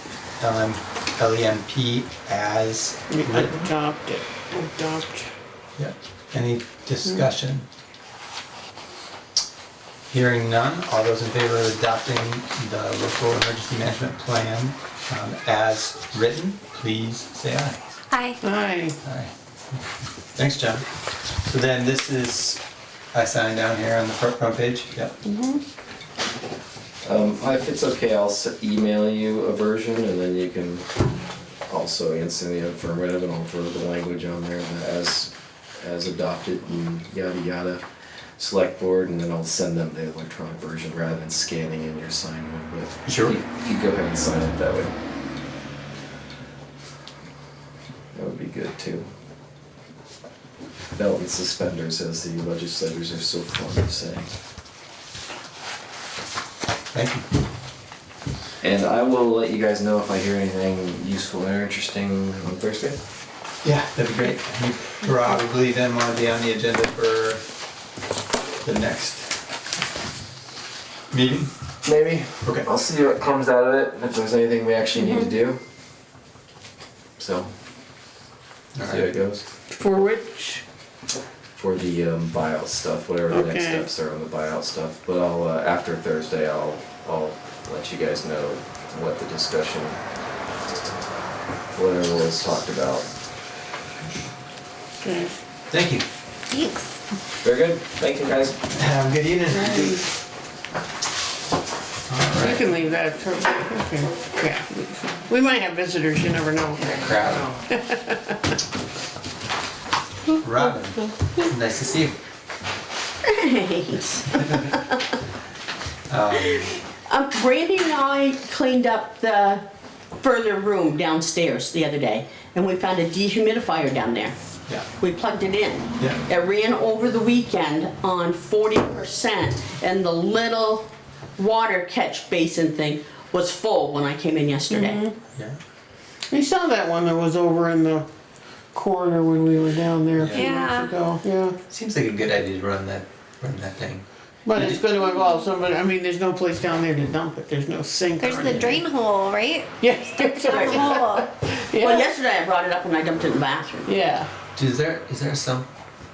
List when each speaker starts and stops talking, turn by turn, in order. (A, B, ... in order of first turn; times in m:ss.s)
0:00.4-0:03.6 A
0:03.1-0:05.3 B
0:05.8-0:07.6 A
0:10.1-0:17.8 A
0:18.1-0:18.4 C
0:18.4-0:19.0 B
0:19.0-0:19.8 A
0:20.3-0:22.6 A
0:23.1-0:25.1 A
0:25.2-0:25.6 B
0:27.0-0:30.9 D
0:31.7-0:37.8 D
0:38.4-0:44.9 D
0:43.0-0:43.3 A
0:48.1-0:49.1 D
0:51.0-0:54.3 D
0:56.9-0:57.2 A
0:58.6-1:03.0 D
1:03.6-1:07.4 A
1:08.6-1:09.3 A
1:11.1-1:11.5 A
1:11.8-1:15.6 D
1:17.2-1:17.5 D
1:18.7-1:19.1 A
1:18.8-1:19.4 D
1:19.7-1:20.6 B
1:21.6-1:30.0 D
1:23.3-1:23.8 B
1:31.7-1:33.1 D
1:35.0-1:35.3 B
1:35.7-1:36.0 A
1:36.5-1:36.8 C
1:37.4-1:38.6 D
1:38.7-1:40.1 A
1:39.5-1:40.0 B
1:42.1-1:42.7 A
1:42.4-1:47.0 B
1:46.8-1:47.6 A
1:47.7-1:48.4 B
1:50.4-1:52.2 A
1:50.7-1:51.3 B
1:53.3-1:55.1 E
1:54.3-1:54.7 A
1:56.1-1:56.7 A
1:56.4-1:59.6 E
2:00.2-2:04.4 E
2:05.0-2:15.0 E
2:14.7-2:15.2 B
2:16.3-2:18.0 B
2:18.7-2:21.6 B
2:20.2-2:20.5 A
2:20.3-2:20.9 C
2:21.7-2:24.8 A
2:24.4-2:28.8 B
2:28.2-2:29.7 C
2:28.3-2:28.8 A
2:29.8-2:32.1 B
2:30.4-2:31.0 E
2:30.4-2:31.2 C
2:31.8-2:33.9 E
2:33.8-2:34.3 B
2:34.5-2:35.7 A